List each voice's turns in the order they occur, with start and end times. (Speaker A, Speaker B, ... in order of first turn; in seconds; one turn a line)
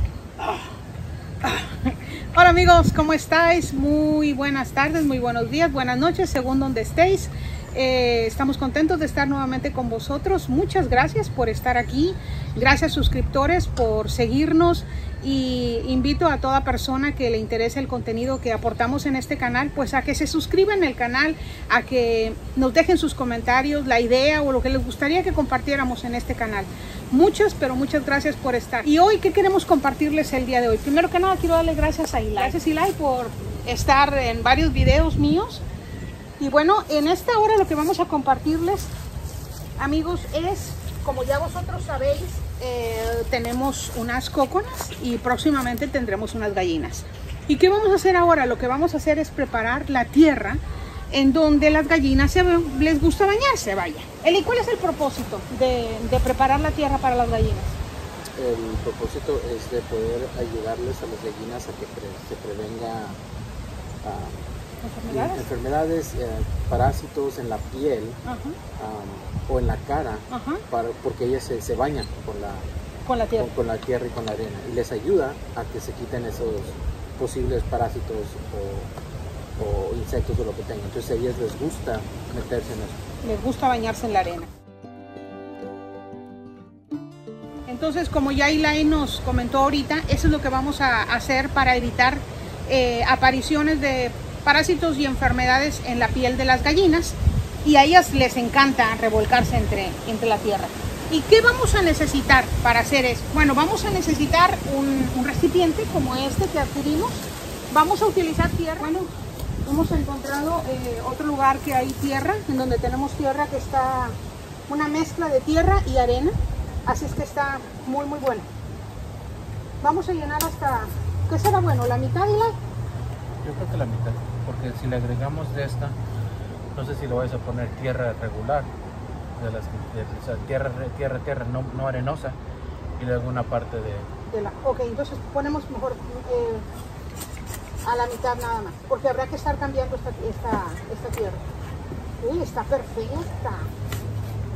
Speaker A: 0.4-0.7
Speaker A: 1.4-35.6
Speaker A: 36.4-38.9
Speaker A: 39.8-57.8
Speaker B: 58.4-63.2
Speaker B: 64.0-64.4
Speaker A: 64.8-65.5
Speaker B: 65.1-68.2
Speaker A: 68.2-68.6
Speaker B: 68.8-72.7
Speaker A: 70.3-70.6
Speaker A: 73.0-73.5
Speaker B: 73.4-78.9
Speaker B: 79.6-83.0
Speaker A: 83.2-84.5
Speaker A: 87.7-109.1
Speaker A: 109.6-114.2
Speaker A: 114.7-118.5
Speaker A: 119.8-122.6
Speaker B: 123.4-126.0
Speaker B: 126.7-128.7
Speaker B: 129.4-132.4
Speaker B: 133.0-134.1
Speaker A: 134.3-136.7
Speaker A: 137.8-141.5
Speaker A: 142.2-143.7